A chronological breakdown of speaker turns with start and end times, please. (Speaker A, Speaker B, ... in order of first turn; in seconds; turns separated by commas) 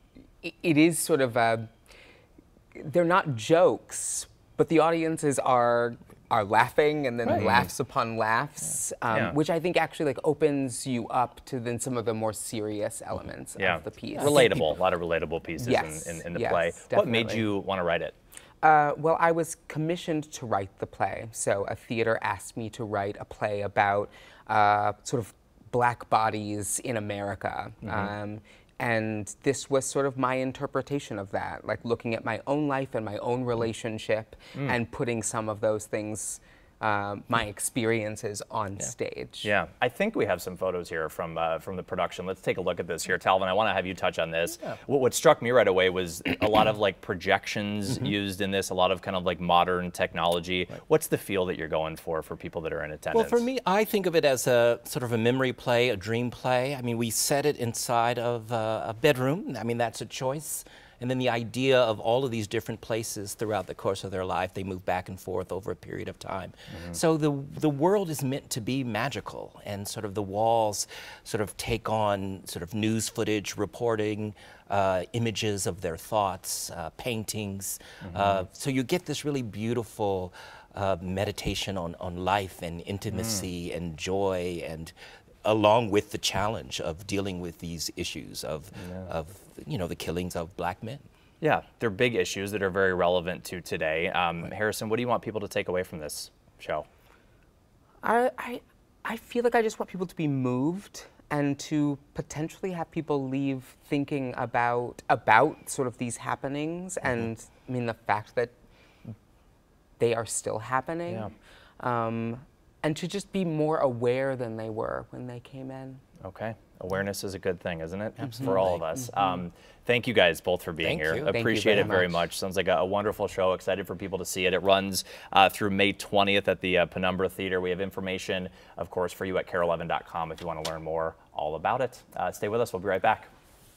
Speaker A: 0.4-1.7, Speaker A: 2.8-14.7, Speaker B: 7.3-7.7, Speaker B: 13.6-18.1, Speaker A: 15.6-17.4, Speaker A: 18.6-39.5, Speaker B: 27.8-28.1, Speaker B: 39.4-53.5, Speaker C: 53.1-91.0, Speaker B: 78.0-78.5, Speaker B: 83.1-83.5, Speaker B: 88.8-89.1, Speaker B: 91.4-96.9, Speaker A: 98.0-108.5, Speaker A: 110.0-116.0, Speaker B: 116.2-133.3, Speaker A: 118.2-119.4, Speaker C: 118.3-118.8, Speaker C: 120.8-121.4, Speaker A: 121.3-122.3